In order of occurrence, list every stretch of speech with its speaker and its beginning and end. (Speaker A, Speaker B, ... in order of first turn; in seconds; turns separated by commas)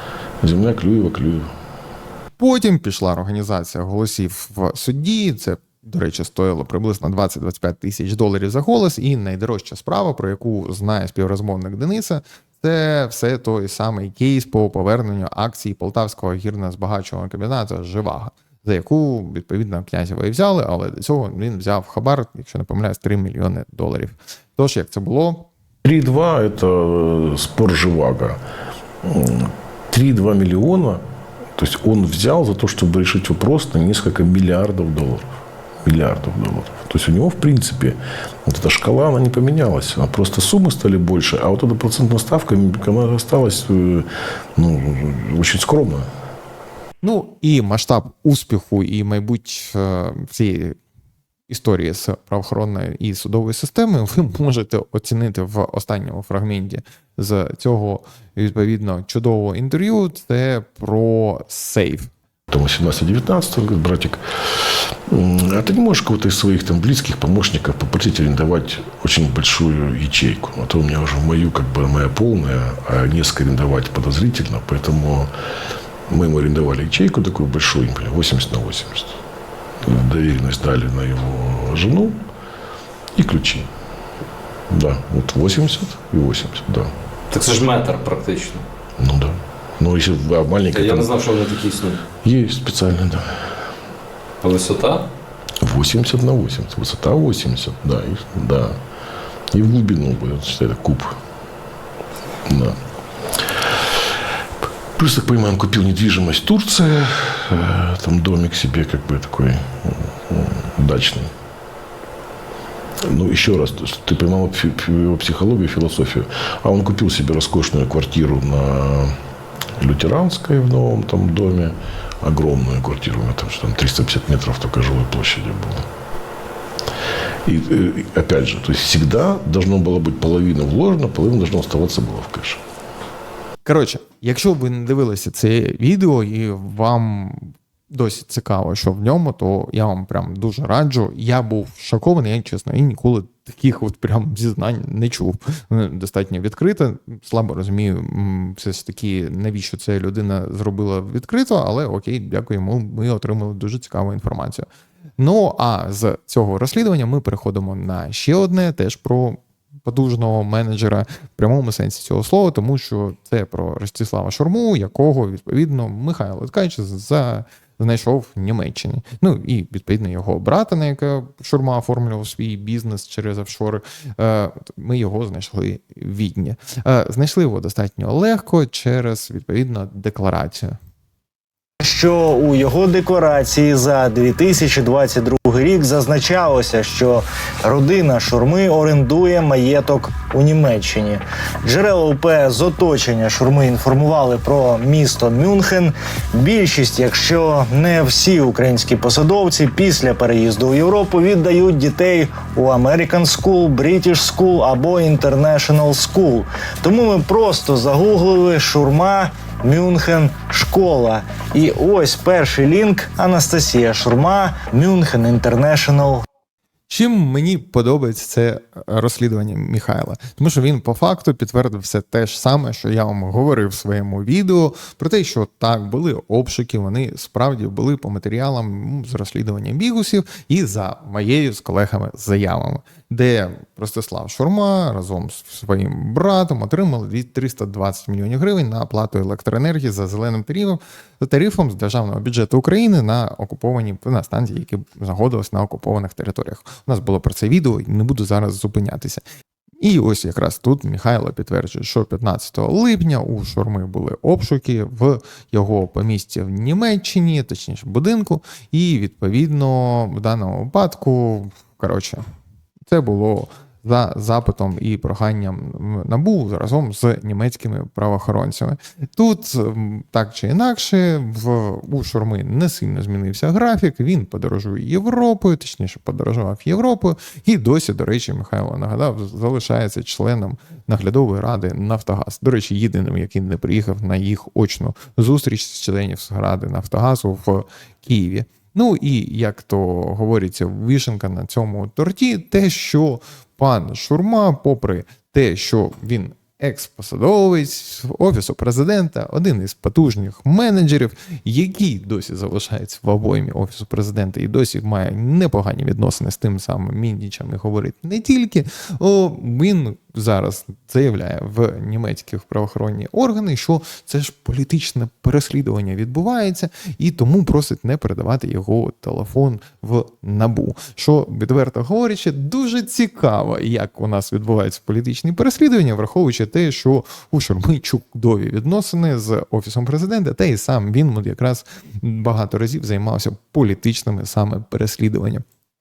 Speaker A: 0.4-1.5, Speaker B: 2.4-25.5, Speaker A: 25.8-28.4, Speaker A: 29.0-31.0, Speaker A: 31.6-35.3, Speaker A: 35.9-46.1, Speaker B: 47.0-50.8, Speaker B: 51.5-62.1, Speaker A: 62.5-75.3, Speaker A: 76.1-79.2, Speaker A: 79.8-82.2, Speaker A: 83.2-83.7, Speaker A: 84.7-86.9, Speaker C: 87.3-88.6, Speaker A: 89.0-91.2, Speaker C: 90.7-92.0, Speaker A: 92.2-93.5, Speaker C: 94.4-95.1, Speaker A: 95.6-98.8, Speaker A: 99.5-101.2, Speaker A: 102.4-102.8, Speaker A: 105.0-111.3, Speaker A: 113.0-119.2, Speaker A: 119.8-125.8, Speaker A: 127.5-132.6, Speaker B: 133.6-154.7, Speaker B: 155.2-180.8, Speaker D: 181.8-216.2, Speaker B: 216.9-249.2, Speaker B: 249.8-262.2, Speaker B: 262.9-335.4